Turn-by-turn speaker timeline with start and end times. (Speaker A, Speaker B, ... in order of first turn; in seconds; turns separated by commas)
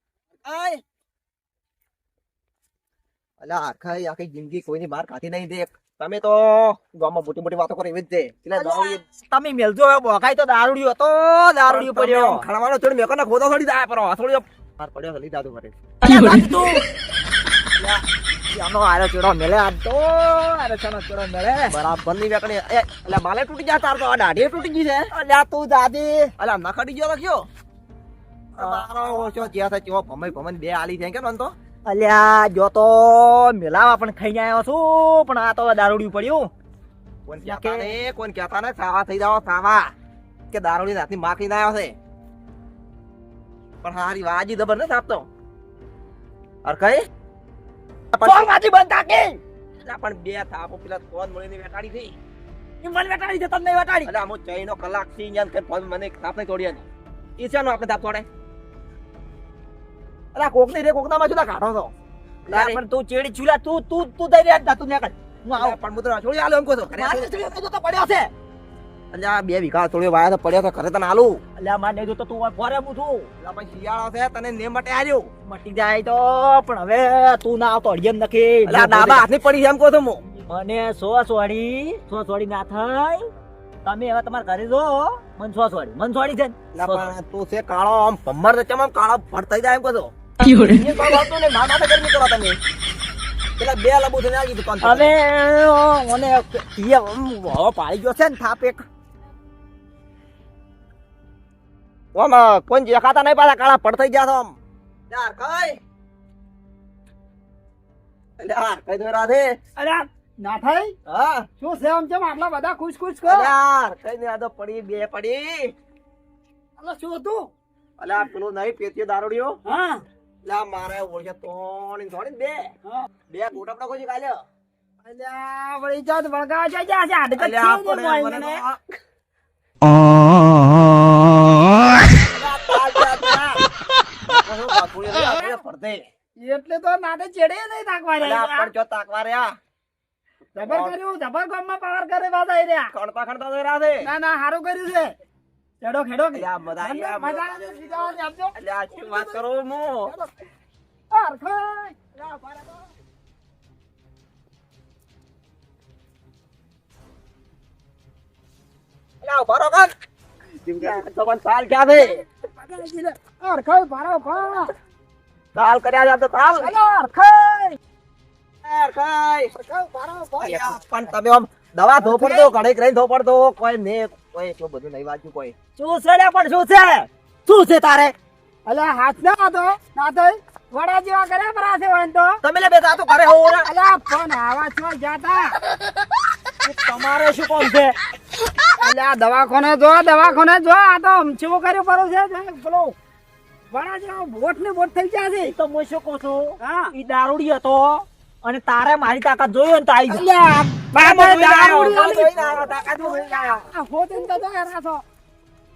Speaker A: 0.4-0.8, Speaker A: 3.4-9.0, Speaker B: 8.5-12.4, Speaker A: 11.7-15.7, Speaker B: 16.0-16.8, Speaker B: 17.8-21.8, Speaker A: 21.7-25.1, Speaker B: 25.1-26.3, Speaker A: 26.4-27.4, Speaker A: 28.5-31.5, Speaker B: 28.6-28.8, Speaker B: 31.9-36.5, Speaker A: 37.3-39.9, Speaker B: 37.4-38.0, Speaker A: 40.5-42.0, Speaker A: 43.8-45.3, Speaker A: 46.6-47.0, Speaker A: 48.1-48.5, Speaker B: 48.2-49.4, Speaker A: 49.8-52.1, Speaker B: 52.8-54.1, Speaker A: 54.0-56.8, Speaker A: 57.4-58.2, Speaker A: 60.5-61.9, Speaker B: 62.5-65.8, Speaker A: 62.5-62.8, Speaker A: 65.5-67.3, Speaker B: 66.9-68.3, Speaker A: 69.1-71.4, Speaker B: 71.5-73.3, Speaker A: 73.4-75.3, Speaker B: 75.5-79.3, Speaker A: 78.7-80.2, Speaker B: 80.3-83.3, Speaker B: 83.8-87.1, Speaker A: 86.7-92.6, Speaker A: 93.6-95.1, Speaker B: 94.8-98.8, Speaker A: 102.1-104.5, Speaker A: 105.1-105.8, Speaker A: 108.4-109.5, Speaker C: 109.8-110.9, Speaker A: 111.1-111.5, Speaker C: 111.6-113.5, Speaker A: 113.2-115.7, Speaker C: 116.8-117.5, Speaker A: 118.0-119.6, Speaker C: 119.6-120.0, Speaker A: 120.4-122.7, Speaker A: 123.3-124.4, Speaker C: 125.0-128.6, Speaker A: 127.4-128.8, Speaker A: 132.1-133.6, Speaker A: 134.4-136.1, Speaker C: 136.4-138.7, Speaker A: 138.2-139.5, Speaker C: 140.6-142.9, Speaker A: 140.6-141.0, Speaker A: 142.9-144.1, Speaker C: 144.0-145.1, Speaker C: 145.8-149.4, Speaker A: 146.3-150.1, Speaker C: 150.1-150.3, Speaker C: 151.1-152.8, Speaker A: 159.2-159.9, Speaker A: 160.7-162.2, Speaker C: 161.9-164.7, Speaker A: 165.5-166.7, Speaker C: 166.6-167.8, Speaker A: 168.6-169.5, Speaker C: 169.5-170.8, Speaker A: 170.4-175.5, Speaker C: 172.0-172.5, Speaker B: 175.8-178.1, Speaker C: 178.7-182.4, Speaker B: 182.4-183.1, Speaker A: 182.6-183.7, Speaker C: 183.3-185.6, Speaker B: 186.6-187.9, Speaker C: 188.8-192.9, Speaker C: 193.7-195.5, Speaker B: 195.4-200.2, Speaker C: 196.6-196.9, Speaker C: 200.1-205.0, Speaker A: 200.9-203.7